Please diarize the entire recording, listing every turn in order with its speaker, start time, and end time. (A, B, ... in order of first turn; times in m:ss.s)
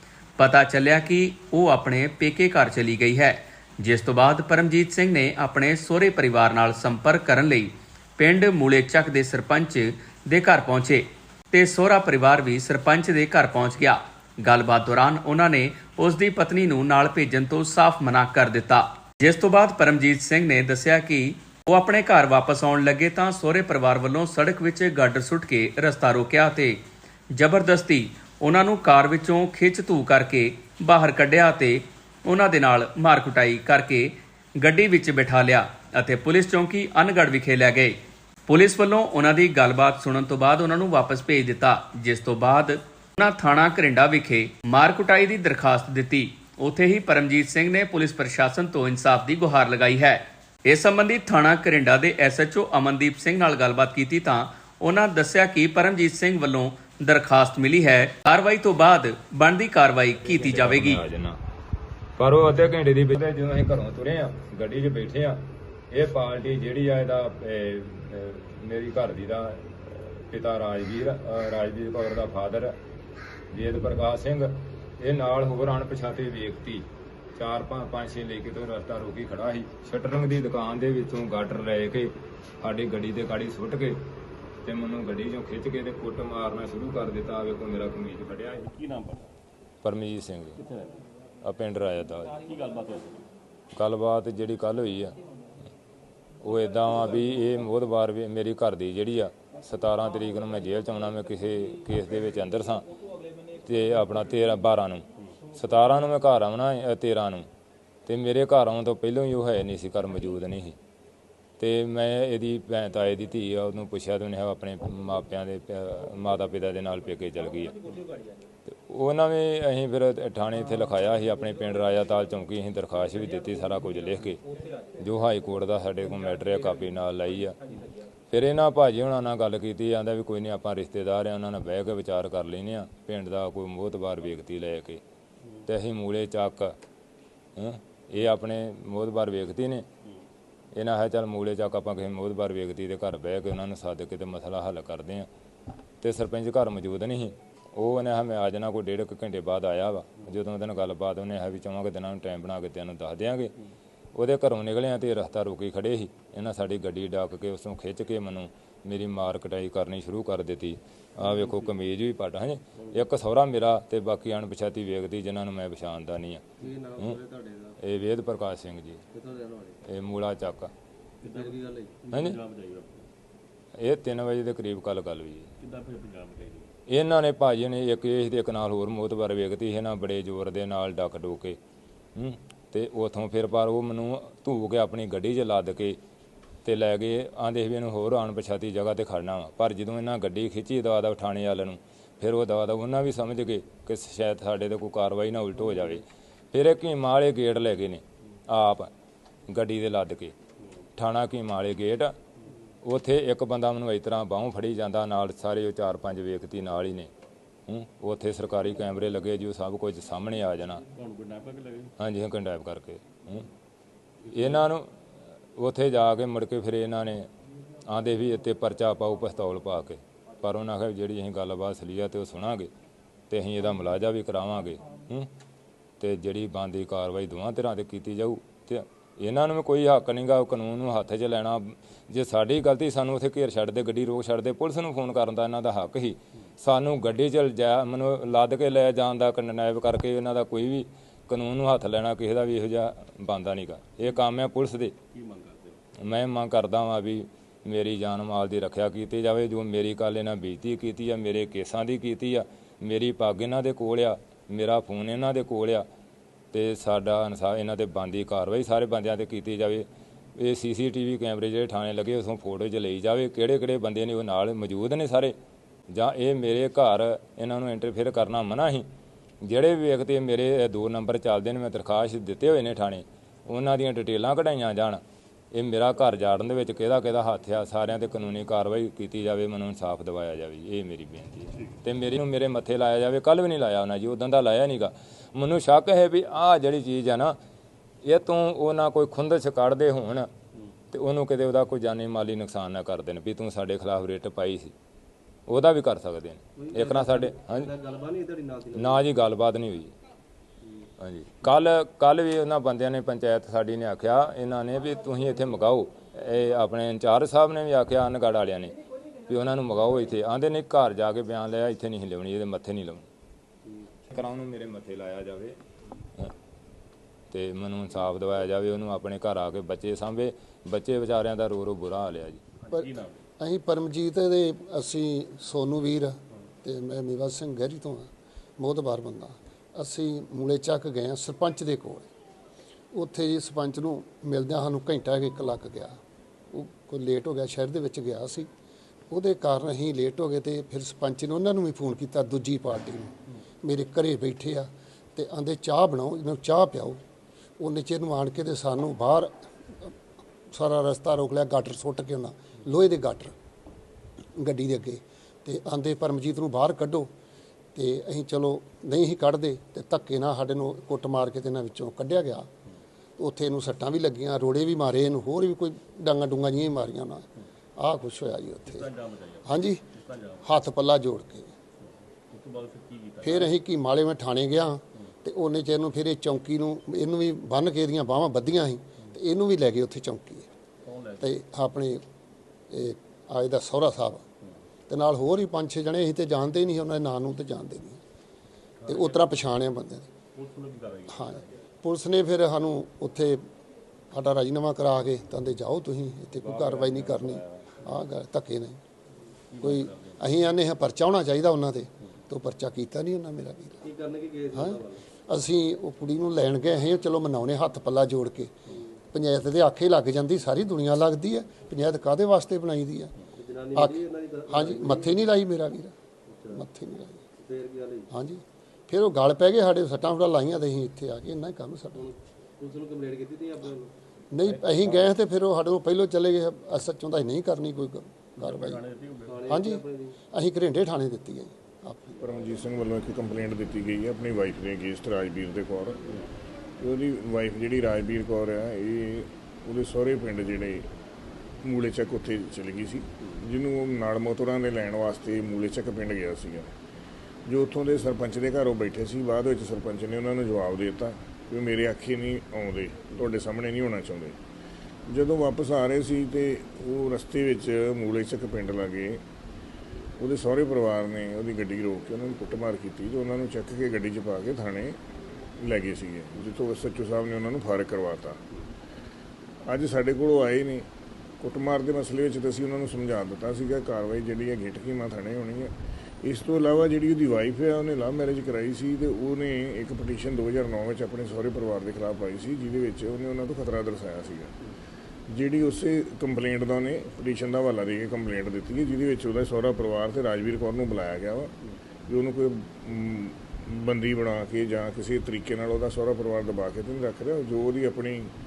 0:00.4-1:01.0 A
1:00.3-1:01.4 B
1:02.2-1:12.7 B
1:13.5-1:16.8 B
1:17.4-1:24.0 B
1:24.6-1:28.7 B
1:28.6-1:29.3 C
1:29.8-1:30.6 B
1:30.6-1:31.0 C
1:31.4-1:32.4 B
1:32.4-1:33.3 C
1:33.7-1:35.2 B
1:36.4-1:42.8 B
1:43.6-1:47.5 B
1:48.0-1:50.8 B
1:51.6-1:58.0 B
1:58.7-2:04.4 B
2:05.0-2:07.6 B
2:08.3-2:15.0 B
2:15.6-2:16.7 B
2:17.6-2:19.8 B
2:20.7-2:25.3 B
2:26.0-2:33.5 B
2:34.1-2:47.1 B
2:46.6-2:47.8 D
2:47.8-2:49.0 B
2:49.1-2:49.8 D
2:49.9-2:50.7 B
2:51.2-2:53.1 C
2:51.2-2:52.0 D
2:52.1-2:52.4 B
2:53.8-2:55.5 B
2:55.6-2:56.7 C
2:56.9-3:01.6 B
3:02.2-3:06.0 B
3:06.6-3:18.9 B
3:19.5-3:20.3 B
3:21.0-3:22.1 B
3:22.8-3:27.1 B
3:27.7-3:30.8 B
3:30.9-3:31.9 C
3:32.0-3:33.5 B
3:34.3-3:34.9 B
3:35.6-3:37.3 B
3:37.8-3:42.7 B
3:43.3-3:45.3 B
3:46.0-4:04.9 B
4:05.1-4:05.8 C
4:06.0-4:15.8 B
4:16.5-4:19.8 B
4:20.4-4:25.3 B
4:25.9-4:28.8 B
4:29.4-4:35.0 B
4:35.5-4:47.4 B
4:48.0-4:50.3 B
4:50.9-4:54.7 B
4:55.5-4:57.7 B
4:56.6-4:59.0 D
4:58.7-4:59.9 B
5:01.0-5:13.0 B
5:14.1-5:15.6 B
5:17.3-5:22.4 B
5:22.6-5:23.2 C
5:23.4-5:32.1 E
5:32.9-5:36.0 E
5:36.5-5:38.5 E
5:39.1-5:47.0 E
5:47.6-5:49.9 E
5:50.5-5:53.3 E
5:54.4-5:57.1 E
5:57.7-6:02.5 E
6:03.2-6:07.2 E
6:07.8-6:08.9 E
6:08.6-6:10.5 C
6:09.4-6:09.8 E
6:10.4-6:11.5 E
6:11.9-6:13.5 C
6:13.2-6:20.5 E
6:20.8-6:21.3 C
6:21.2-6:22.0 E
6:22.7-6:24.2 E
6:24.9-6:28.0 E
6:28.8-6:29.3 C
6:28.8-6:30.1 E
6:30.3-6:31.4 C
6:31.1-6:33.4 E
6:34.1-6:38.8 E
6:36.4-6:37.6 C
6:39.5-6:40.2 C
6:39.6-6:43.9 E
6:43.8-6:45.0 D
6:44.5-6:48.6 E
6:49.1-6:53.1 E
6:53.3-6:55.2 D
6:53.7-6:55.9 E
6:56.3-6:56.6 D
6:56.5-6:57.2 E
6:57.4-6:58.1 D
6:58.1-7:02.1 E
7:02.0-7:03.9 D
7:04.3-7:08.8 E
7:08.4-7:09.5 C
7:09.3-7:10.2 D
7:09.5-7:12.1 E
7:12.2-7:16.0 F
7:16.8-7:20.9 F
7:21.6-7:26.7 F
7:27.4-7:34.4 F
7:35.1-7:39.2 F
7:40.2-7:45.0 F
7:45.6-7:48.4 F
7:49.6-7:50.9 F
7:51.4-8:04.5 F
8:05.3-8:11.5 F
8:12.1-8:18.3 F